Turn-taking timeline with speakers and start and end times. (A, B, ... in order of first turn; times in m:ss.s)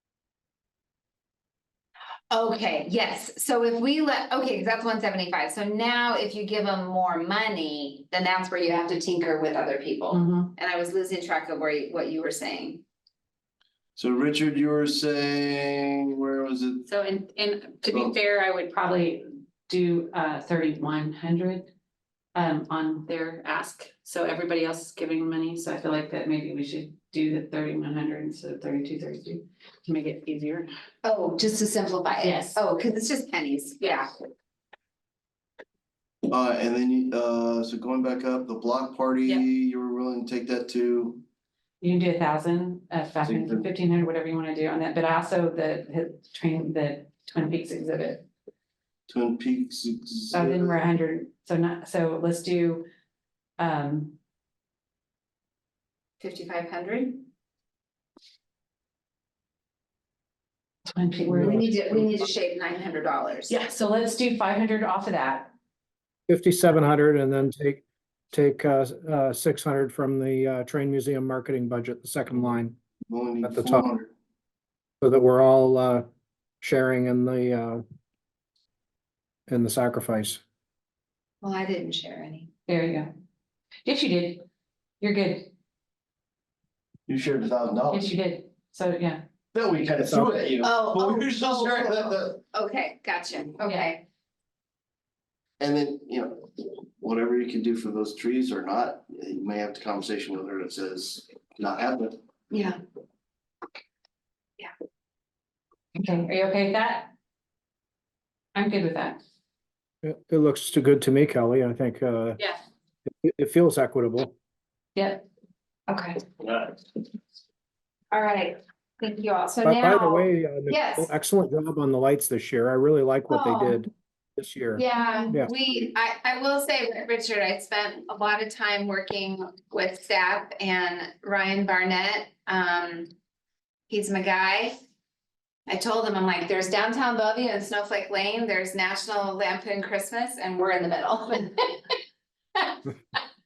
0:02.3-0:12.8 A
0:10.1-0:10.5 B
0:14.0-0:16.8 C
0:16.9-0:21.7 B
0:17.9-0:18.2 C
0:22.3-0:30.7 B
0:31.0-0:34.1 A
0:32.2-0:32.6 B
0:36.3-0:41.2 C
0:41.8-0:48.2 B
0:43.2-0:43.7 C
0:49.1-0:50.8 C
0:50.3-0:52.8 B
0:53.6-0:54.2 B
0:56.2-0:57.2 A
1:00.9-1:01.8 B
1:01.4-1:01.6 D
1:01.4-1:03.5 A
1:03.5-1:05.5 B
1:06.3-1:12.8 D
1:13.1-1:14.1 C
1:13.4-1:13.8 D
1:15.0-1:16.1 D
1:16.6-1:17.8 D
1:19.5-1:20.4 D
1:21.4-1:22.5 A
1:22.7-1:23.1 B
1:23.8-1:24.4 B
1:25.0-1:25.5 B
1:27.1-1:28.1 C
1:27.9-1:29.2 B
1:29.5-1:32.4 C
1:30.0-1:30.5 D
1:30.6-1:34.0 A
1:33.7-1:33.9 B
1:35.6-1:42.2 C
1:42.5-1:42.8 A
1:46.0-1:47.1 B
1:48.5-1:49.2 B
1:50.0-1:52.4 D
1:53.2-1:54.3 D
1:55.0-1:55.2 B
1:55.9-1:56.2 A
1:58.1-2:01.1 A
1:59.6-2:05.5 D
2:03.3-2:03.8 A
2:04.8-2:13.1 A
2:13.9-2:14.8 A
2:15.7-2:21.9 A